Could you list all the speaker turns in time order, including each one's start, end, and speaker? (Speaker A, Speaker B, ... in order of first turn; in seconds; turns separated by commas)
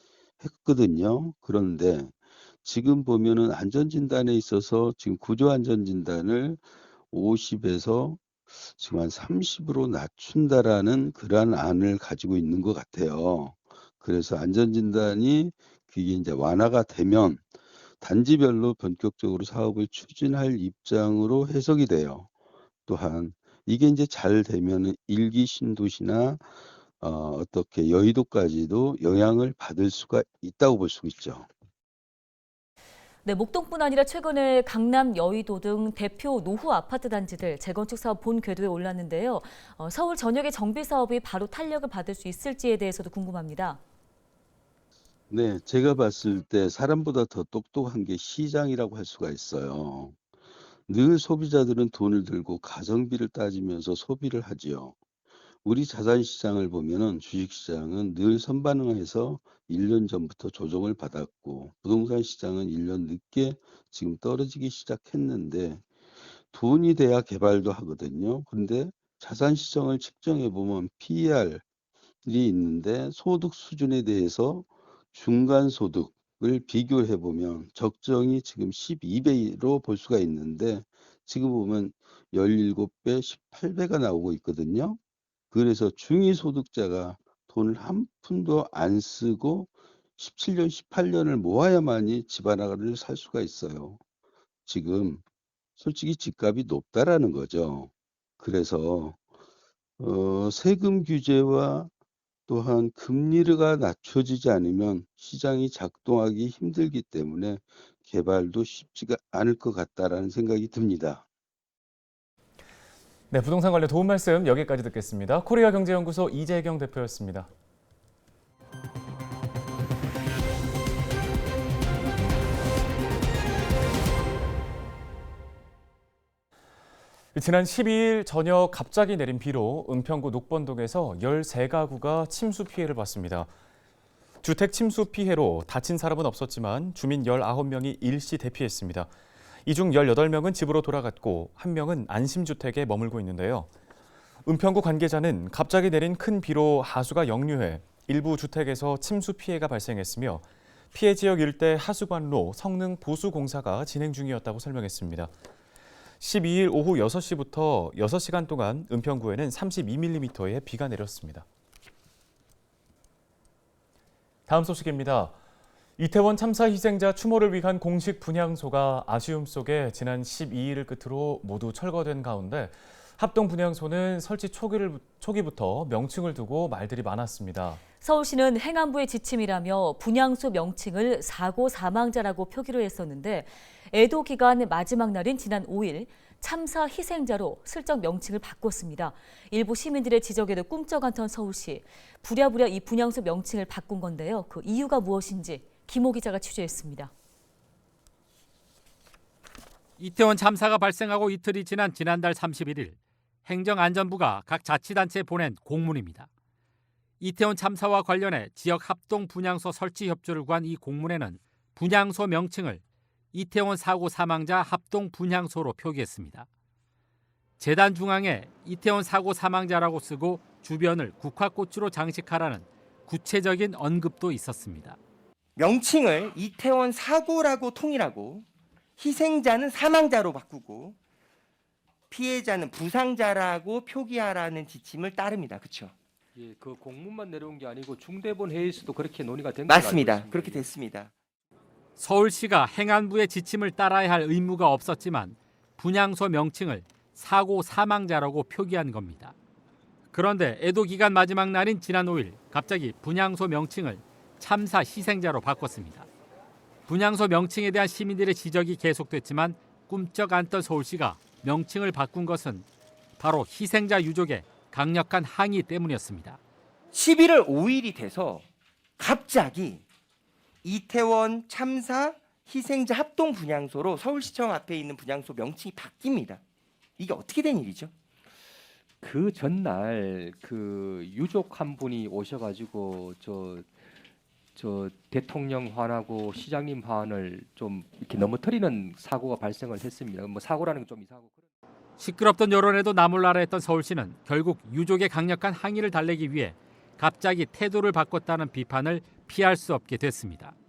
Speaker A: 0.4-17.4, Speaker A: 18.0-22.3, Speaker A: 22.9-26.5, Speaker A: 27.0-31.5, Speaker B: 33.2-43.8, Speaker A: 45.3-50.2, Speaker A: 50.9-55.0, Speaker A: 55.6-65.8, Speaker A: 66.5-71.6, Speaker A: 72.2-85.0, Speaker A: 85.5-94.0, Speaker A: 94.7-95.2, Speaker A: 95.8-99.2, Speaker A: 100.0-101.9, Speaker A: 102.5-111.2, Speaker C: 113.3-117.5, Speaker C: 127.3-133.5, Speaker C: 134.4-139.1, Speaker C: 139.7-143.7, Speaker C: 144.4-155.3, Speaker C: 156.2-161.4, Speaker C: 164.5-165.3, Speaker C: 166.0-177.8, Speaker B: 178.0-197.1, Speaker D: 200.0-206.3, Speaker D: 207.2-212.8, Speaker D: 213.3-216.5, Speaker D: 217.6-225.0, Speaker E: 225.6-228.4, Speaker E: 229.0-230.9, Speaker E: 232.1-235.8, Speaker F: 236.3-240.7, Speaker E: 239.8-241.1, Speaker D: 242.0-249.3, Speaker D: 250.1-256.1, Speaker D: 256.9-262.7, Speaker D: 263.2-266.4, Speaker E: 266.9-268.4, Speaker E: 269.0-269.8, Speaker E: 270.6-276.4, Speaker E: 277.0-277.9, Speaker F: 279.0-283.7, Speaker F: 284.5-291.4, Speaker D: 292.0-300.5